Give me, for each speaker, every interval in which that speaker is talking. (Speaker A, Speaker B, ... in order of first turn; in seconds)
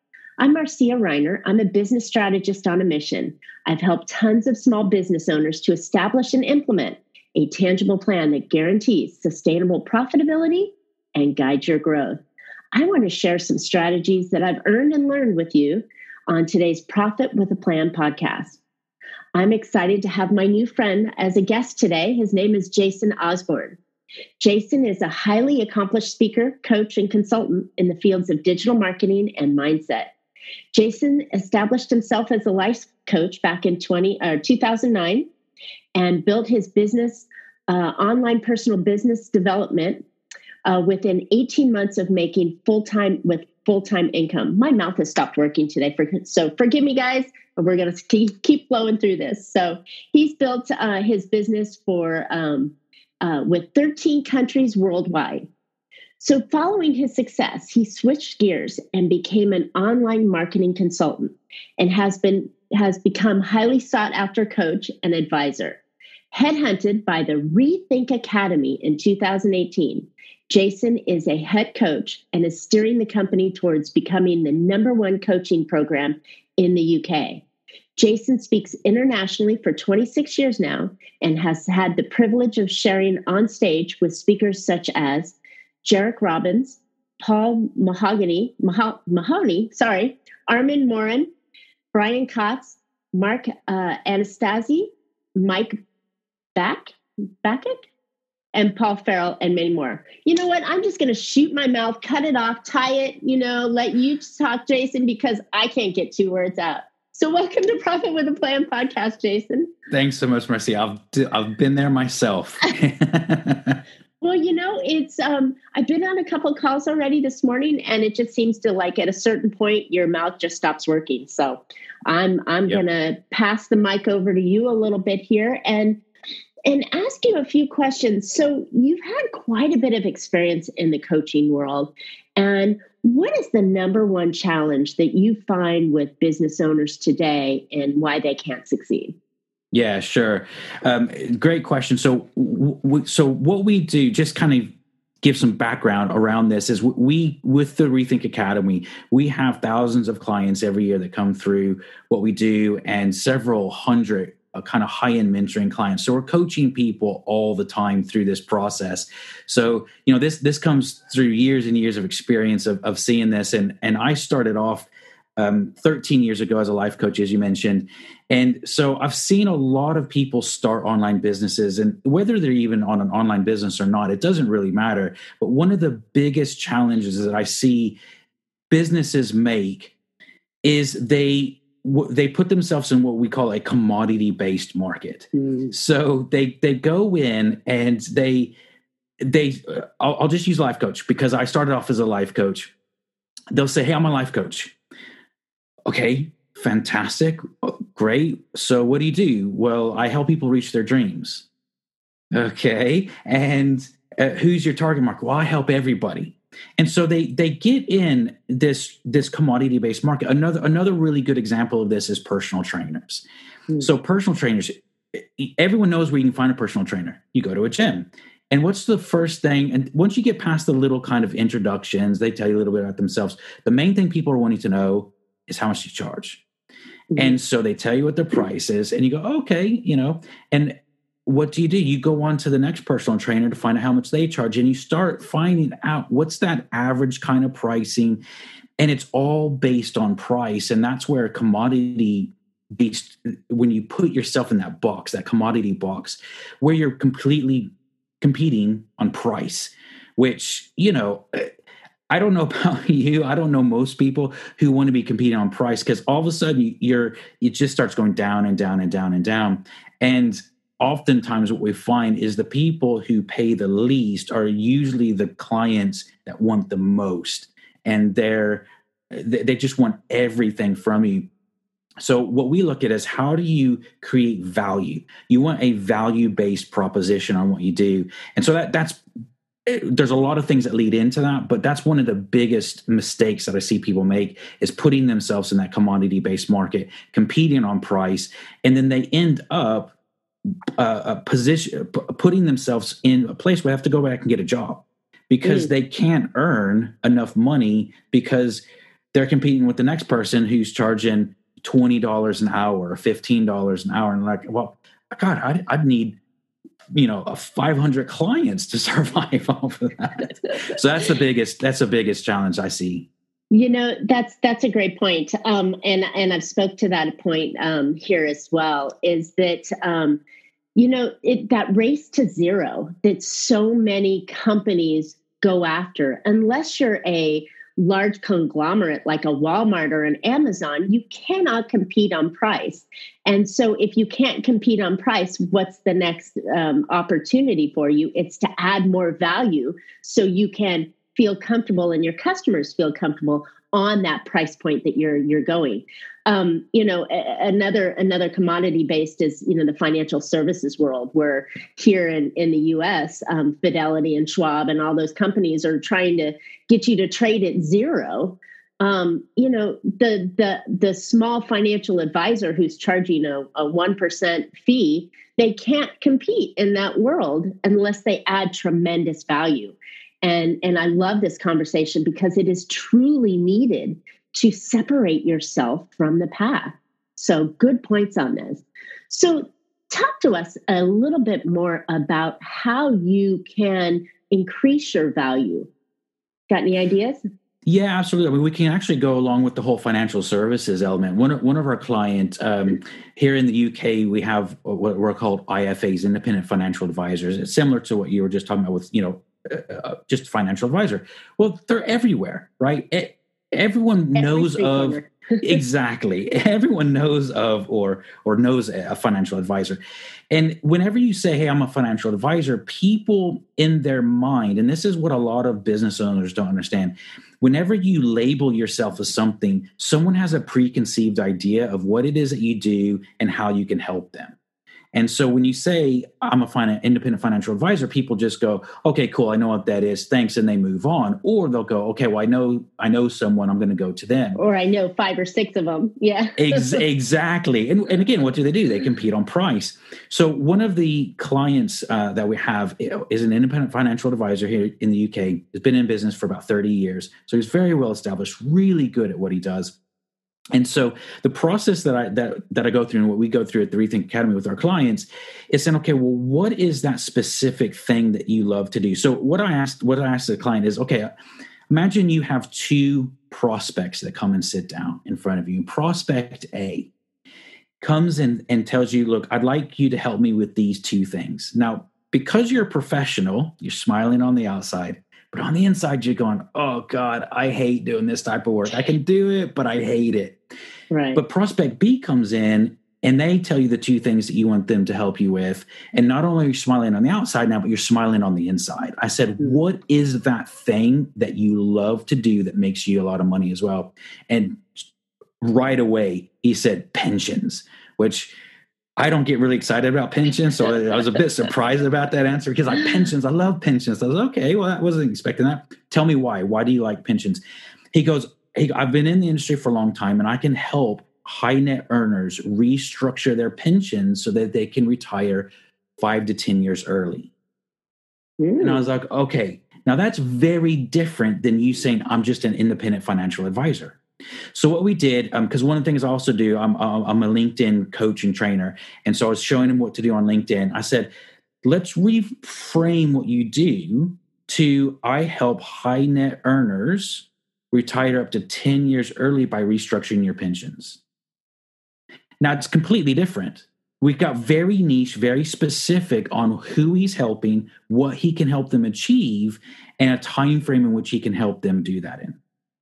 Speaker A: 0.4-12.2, 12.7-18.6, 19.4-23.8, 24.4-30.1, 30.7-35.3, 36.0-40.0, 40.7-55.5, 56.2-65.8, 66.3-77.4, 78.0-91.3, 91.9-95.8, 96.6-97.9, 98.6-109.7, 114.2-126.0, 126.7-139.2, 185.3-185.7, 227.1-227.4, 295.4-295.7, 313.5-320.2, 320.8-385.7, 386.5-387.2, 404.2-405.6, 434.4-436.8, 480.9-481.2, 518.4-518.8
Speaker B: 109.9-113.8, 139.7-178.0, 178.7-179.9, 180.6-188.5, 189.2-192.7, 193.5-194.7, 195.9-201.4, 202.3-213.2, 213.8-226.4, 227.2-230.7, 231.3-238.2, 238.8-247.7, 248.2-251.5, 252.1-271.3, 272.0-279.0, 279.7-289.9, 290.8-298.6, 299.1-306.1, 306.9-313.1, 387.6-409.8, 410.3-424.4, 424.9-434.4, 436.4-449.7, 450.6-461.1, 461.7-466.9, 467.8-480.4, 481.1-494.8, 495.4-498.3, 499.0-507.4, 507.9-517.3, 518.6-524.0, 524.5-531.1, 531.6-541.0, 542.4-552.4